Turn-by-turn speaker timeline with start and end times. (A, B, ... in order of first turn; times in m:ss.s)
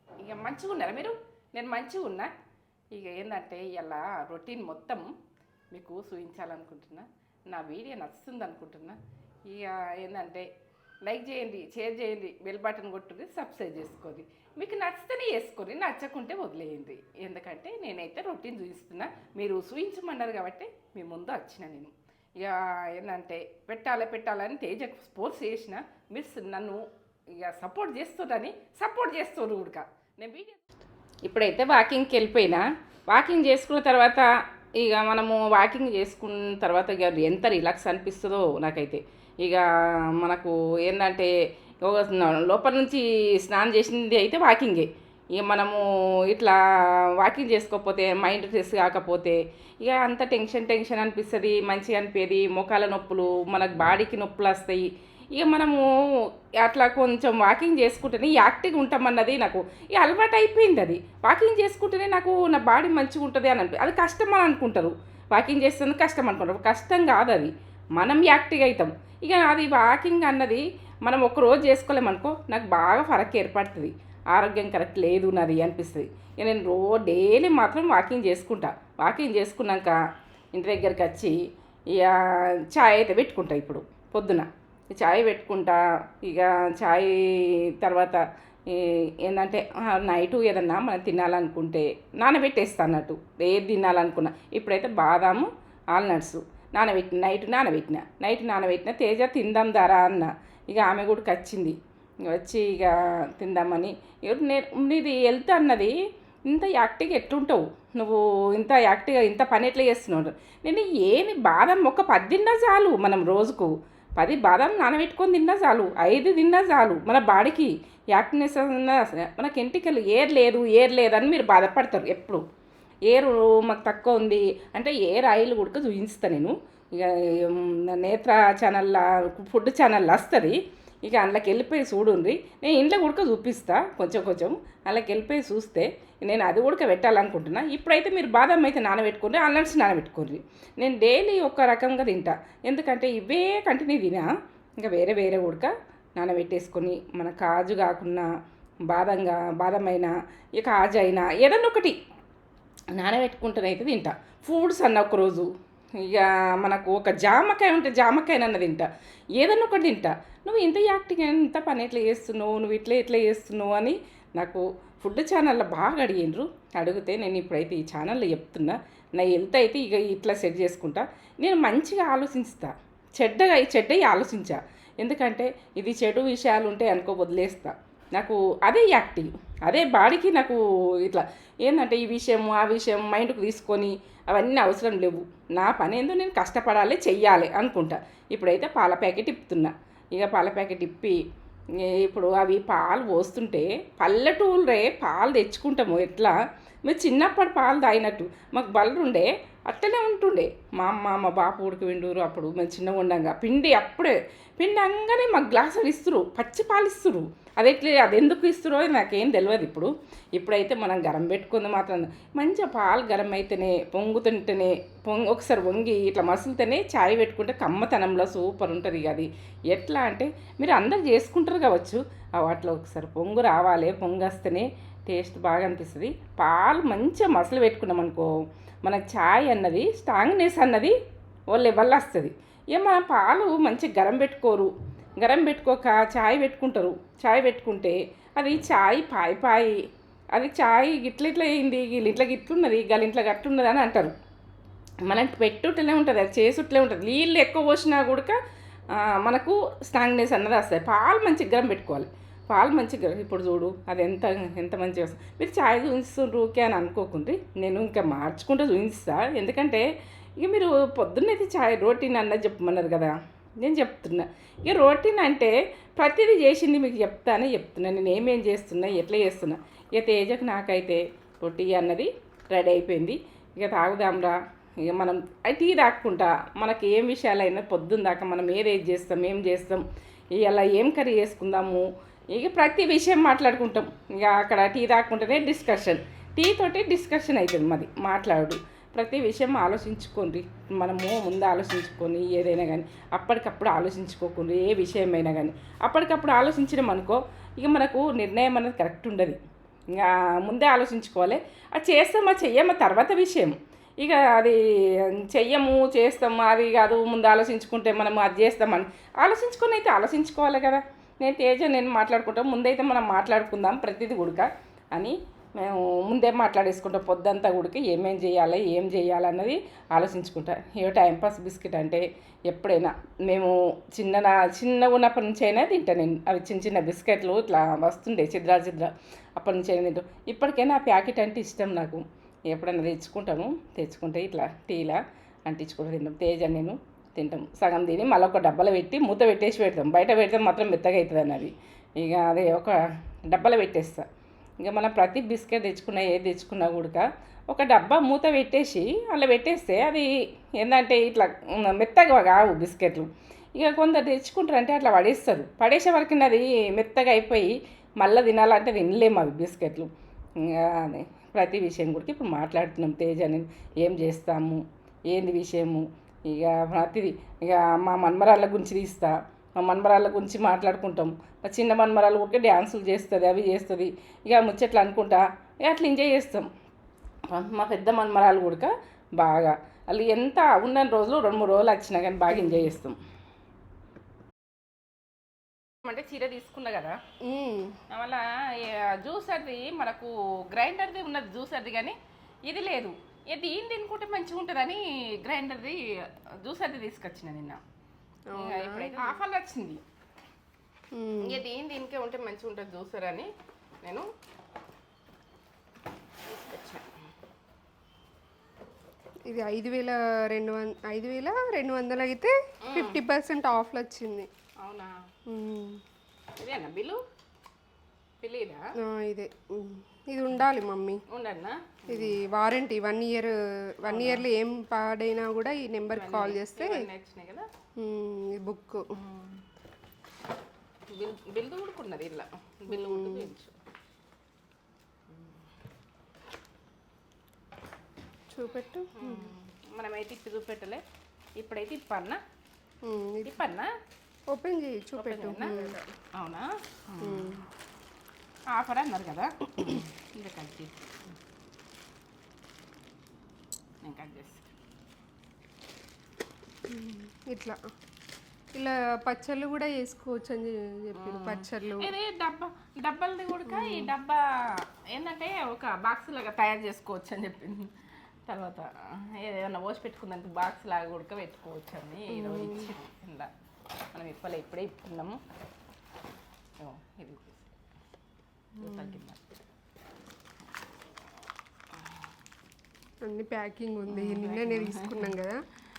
0:00.2-0:02.3 A
0:02.9-0:05.1 A
0:05.7-0:10.5 A
0:11.0-0:46.6 A
0:47.2-0:55.9 A
0:56.6-1:20.0 A
1:20.5-1:21.4 A
1:21.9-1:46.0 A
1:46.5-2:02.4 A
2:03.1-2:24.3 A
2:24.8-2:28.3 A
2:28.9-2:32.0 A
2:32.9-3:11.2 A
3:11.8-3:51.0 A
3:51.5-3:59.8 A
4:00.3-4:04.1 A
4:05.0-4:08.4 A
4:08.9-4:19.9 A
4:20.4-4:59.4 A
4:59.9-5:44.1 A
5:44.6-6:16.5 A
6:17.3-6:23.0 A
6:22.3-6:22.8 B
6:25.8-6:27.0 A
6:27.2-6:27.8 B
6:27.9-6:37.6 A
6:38.3-6:39.2 B
6:38.3-6:39.8 A
6:40.9-6:41.4 B
6:41.2-6:43.3 A
6:43.8-6:44.1 A
6:46.2-6:46.9 A
6:49.3-6:54.3 B
6:52.6-6:53.0 A
6:54.6-6:55.0 A
6:55.3-6:55.8 B
6:56.4-6:57.0 A
6:58.2-6:58.6 A
6:58.8-7:01.0 B
7:01.1-7:02.2 A
7:01.9-7:06.8 B
7:03.9-7:04.3 A
7:05.9-7:07.5 A
7:07.8-7:08.9 B
7:09.0-7:09.4 A
7:10.9-7:13.6 A
7:12.7-7:13.3 B
7:15.1-7:15.4 A
7:18.3-7:19.3 B
7:18.9-7:20.8 A
7:21.4-7:22.2 A
7:22.8-7:23.4 B
7:23.2-7:23.7 A
7:24.3-7:25.9 B
7:25.0-7:27.4 A
7:27.0-7:27.5 B
7:28.5-7:31.2 A
7:33.8-7:34.5 A
7:36.7-7:37.6 B
7:38.5-7:41.9 B
7:41.0-7:47.8 A
7:43.5-7:43.9 B
7:48.3-7:53.3 A
7:52.1-7:52.8 B
7:53.9-7:55.2 A
7:56.6-7:57.5 A
7:58.6-7:59.0 B
7:58.6-7:59.2 A
8:03.0-8:05.4 B
8:03.9-8:05.2 A